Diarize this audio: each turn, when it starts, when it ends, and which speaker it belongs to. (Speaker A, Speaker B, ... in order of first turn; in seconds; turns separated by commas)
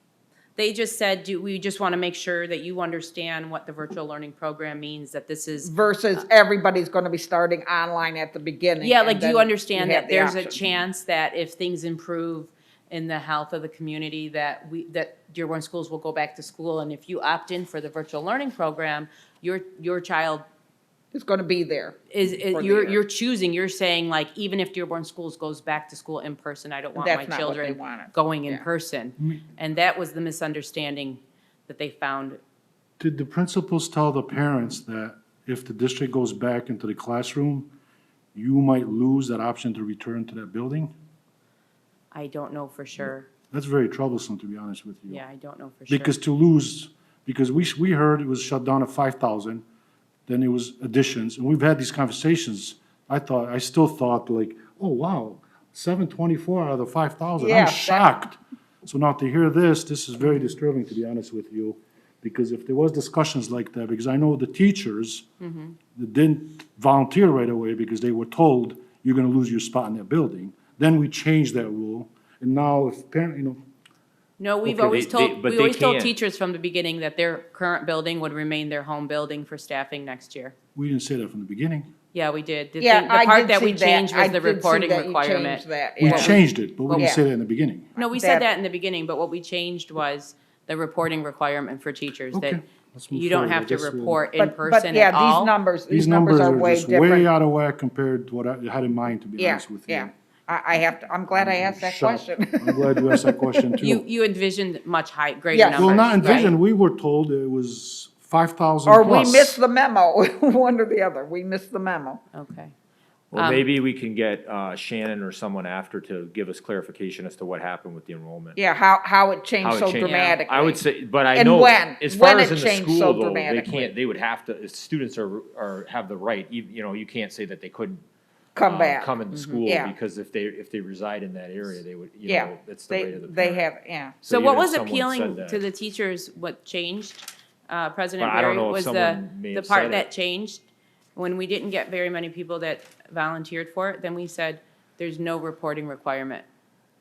Speaker A: 0.6-5.7, Speaker B: 5.6-10.6, Speaker A: 8.8-20.4, Speaker B: 21.1-23.0, Speaker A: 22.1-32.4, Speaker B: 26.9-28.6, Speaker C: 33.0-37.7, Speaker C: 38.3-40.9, Speaker A: 42.1-43.3, Speaker C: 43.5-45.2, Speaker A: 45.1-46.1, Speaker C: 45.9-49.6, Speaker C: 50.3-65.2, Speaker B: 57.4-58.0, Speaker A: 65.4-65.8, Speaker C: 65.9-73.6, Speaker A: 74.4-80.5, Speaker D: 74.7-76.1, Speaker C: 80.7-81.9, Speaker A: 82.1-87.1, Speaker B: 82.8-87.2, Speaker C: 86.0-87.9, Speaker A: 88.0-95.5, Speaker B: 88.0-88.5, Speaker C: 92.3-94.2, Speaker B: 94.4-97.3, Speaker C: 95.9-100.1, Speaker B: 99.4-103.5, Speaker C: 101.3-104.0, Speaker A: 103.8-106.5, Speaker B: 105.5-106.5, Speaker C: 105.7-109.6, Speaker B: 108.8-112.2, Speaker A: 112.3-112.7, Speaker D: 113.3-118.6, Speaker A: 113.3-113.6, Speaker B: 118.5-123.9, Speaker D: 119.6-128.0, Speaker A: 120.0-120.4, Speaker B: 128.6-129.9, Speaker D: 128.6-133.6, Speaker A: 129.3-129.6, Speaker B: 132.2-134.2, Speaker D: 134.2-135.6, Speaker A: 134.2-140.6, Speaker D: 138.2-140.1, Speaker A: 141.2-146.4